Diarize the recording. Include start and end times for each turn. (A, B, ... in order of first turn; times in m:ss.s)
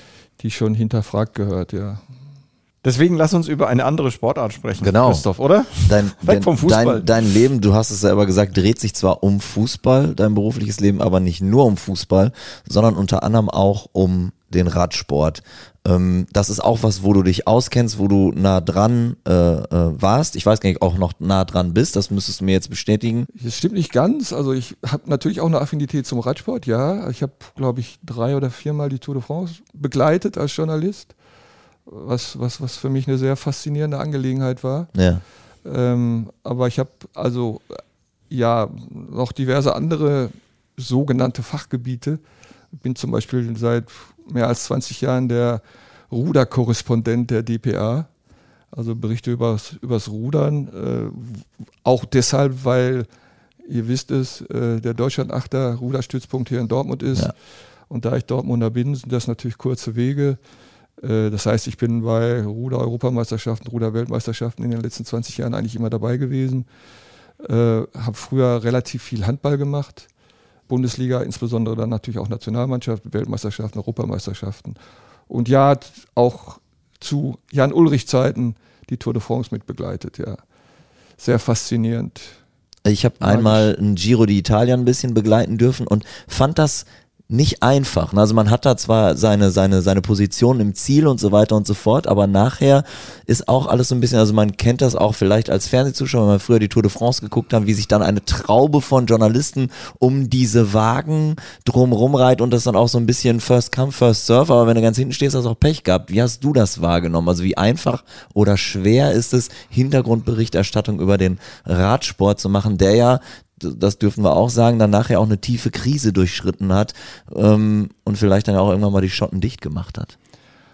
0:00.4-0:02.0 A
0:02.8-0:07.2 B
0:04.8-0:05.2 C
0:05.8-0:23.3 C
0:23.3-0:31.1 A
0:31.9-0:34.9 A
0:35.0-0:35.2 C
0:35.6-0:42.2 A
0:42.8-0:48.1 A
0:48.7-0:53.1 A
0:53.6-0:57.3 A
0:57.9-1:00.4 A
1:01.0-1:06.7 A
1:07.4-1:10.1 A
1:10.7-1:14.8 A
1:15.3-1:20.4 A
1:21.2-1:22.4 A
1:22.8-2:00.1 C
1:23.2-1:23.7 A